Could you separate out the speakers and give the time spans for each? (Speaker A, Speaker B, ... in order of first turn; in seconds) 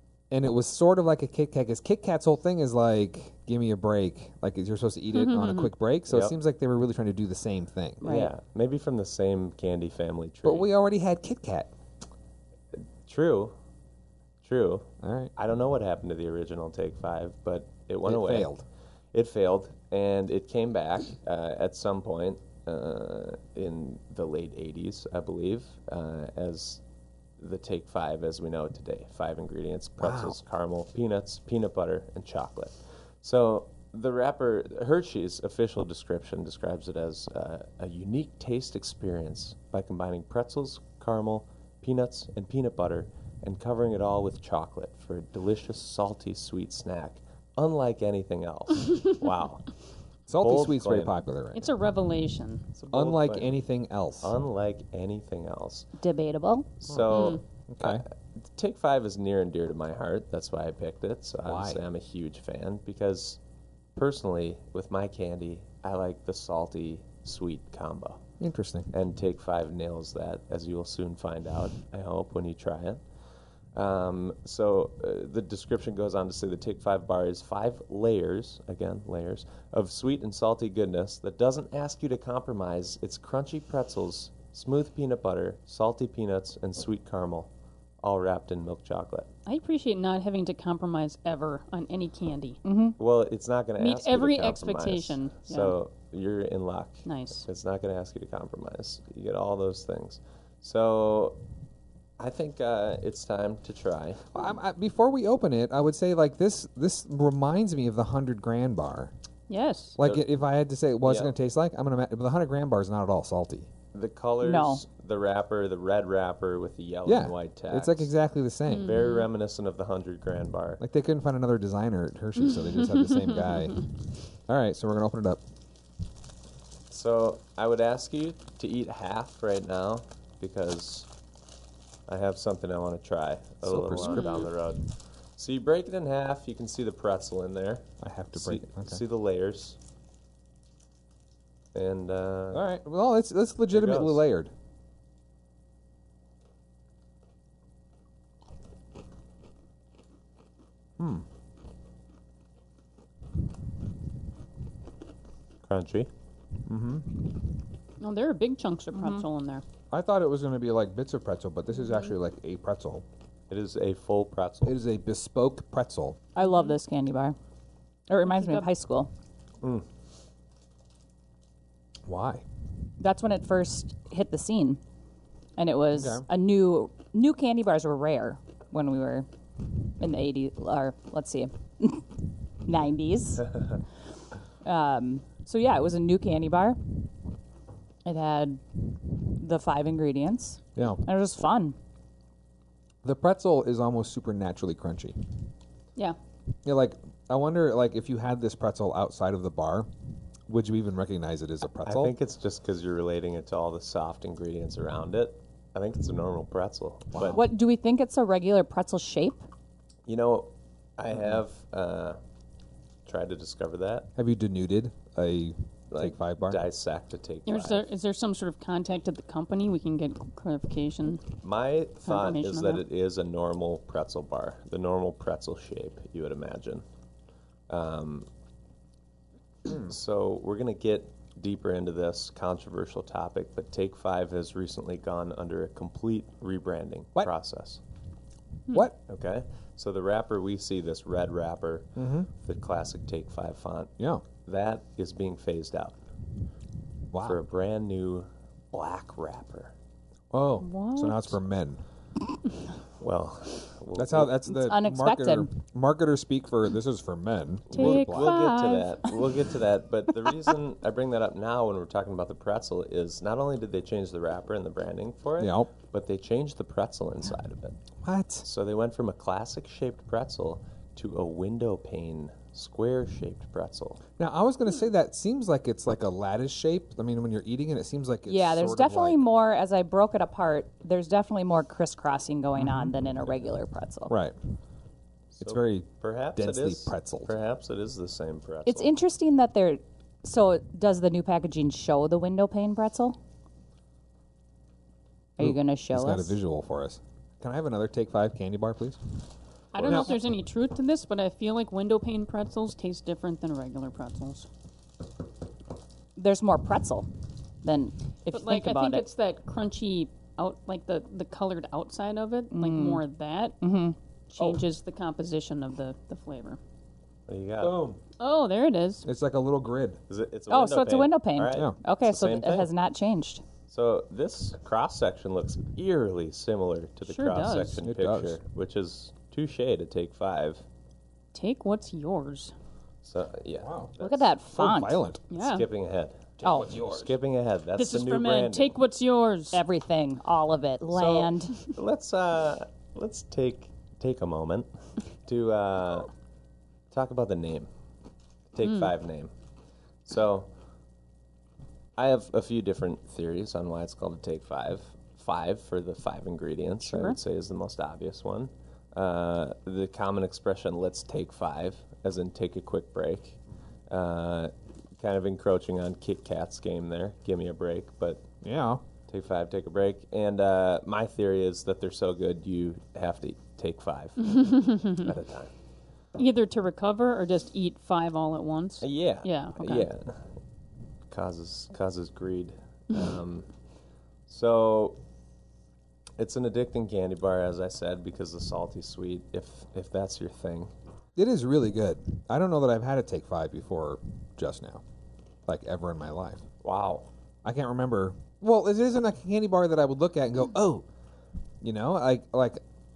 Speaker A: 0.3-8.1, 10.4-11.7, 15.0-15.3, 18.0-18.6, 30.0-30.4, 50.3-51.7, 52.9-54.3, 56.9-58.0, 61.4-61.8, 68.4-68.9, 104.3-109.1, 110.0-113.7, 117.0-119.1, 120.8-125.4, 133.6-134.5, 138.0-139.0, 142.5-144.5, 151.0-151.2, 156.7-157.2, 159.9-163.0, 164.6-166.2, 172.1-172.4, 175.9-176.2, 190.8-191.0, 193.0-195.2, 196.6-199.9, 200.5-202.1, 207.1-207.4, 214.2-216.6, 238.7-238.9, 241.9-242.3, 244.0-244.2, 247.1-247.4, 250.3-251.8, 253.9-258.4, 265.4-265.7, 268.0-268.4, 274.2-279.2, 282.6-282.9, 284.1-284.4, 285.4-287.3, 295.4-299.0, 299.8-300.1, 317.6-318.0, 319.0-320.0, 327.8-328.4, 333.6-333.9, 334.5-335.2, 336.4-337.1, 368.4-368.8, 391.1-394.8, 395.4-396.4, 397.4-400.9, 401.6-402.6
Speaker B: 5.1-5.7, 51.5-52.7, 57.1-57.4, 89.5-92.6, 93.8-95.7, 97.0-97.4, 109.5-110.0, 118.7-119.3, 123.2-123.7, 134.0-134.5, 158.0-159.6, 166.4-166.7, 168.2-168.7, 217.4-221.3, 222.1-222.8, 250.6-251.3, 257.7-259.2, 299.7-304.5, 308.3-313.6, 314.3-316.6, 318.2-319.1, 327.1-327.8, 331.3-332.5, 335.3-335.7, 337.7-339.6, 356.8-357.2, 374.2-375.1, 376.1-379.9
Speaker C: 6.1-6.3, 8.0-10.7, 12.8-13.5, 14.4-18.5, 19.1-26.8, 27.4-49.7, 50.4-51.1, 52.7-53.6, 54.2-55.9, 56.8-63.4, 63.9-68.2, 68.9-73.0, 73.7-89.3, 93.0-101.4, 102.2-104.3, 110.0-110.2, 111.0-111.3, 113.9-118.1, 118.8-120.8, 126.9-131.1, 132.1-139.8, 141.7-142.6, 143.7-144.2, 155.6-156.1, 163.5-164.8, 201.8-207.4, 210.1-212.2, 213.1-214.1, 215.9-217.8, 221.4-226.8, 227.7-228.3, 229.7-237.8, 238.9-246.0, 247.2-249.7, 253.0-254.4, 257.7-267.8, 268.4-274.0, 285.3-288.9, 317.3-317.8, 320.1-322.7, 323.7-330.6, 333.0-334.3, 335.4-338.7, 340.8-344.7, 345.2-346.1, 346.9-347.7, 348.5-349.3, 350.1-350.5, 352.0-363.4, 363.9-368.2, 369.1-375.5, 378.8-380.2, 381.1-383.5, 384.3-385.0, 386.2-390.7, 396.6-397.1
Speaker D: 8.0-8.3, 56.0-56.7, 92.6-93.0, 114.4-114.8, 158.9-159.2, 166.3-167.3, 168.1-169.1, 173.0-174.8, 175.6-183.5, 184.6-187.1, 188.0-191.8, 207.2-209.4, 254.5-255.5, 278.3-284.1, 288.6-293.2, 295.4-296.4, 306.2-307.1, 307.6-309.1, 312.5-313.0, 313.6-314.6, 320.5-323.4, 334.0-335.0, 339.5-341.5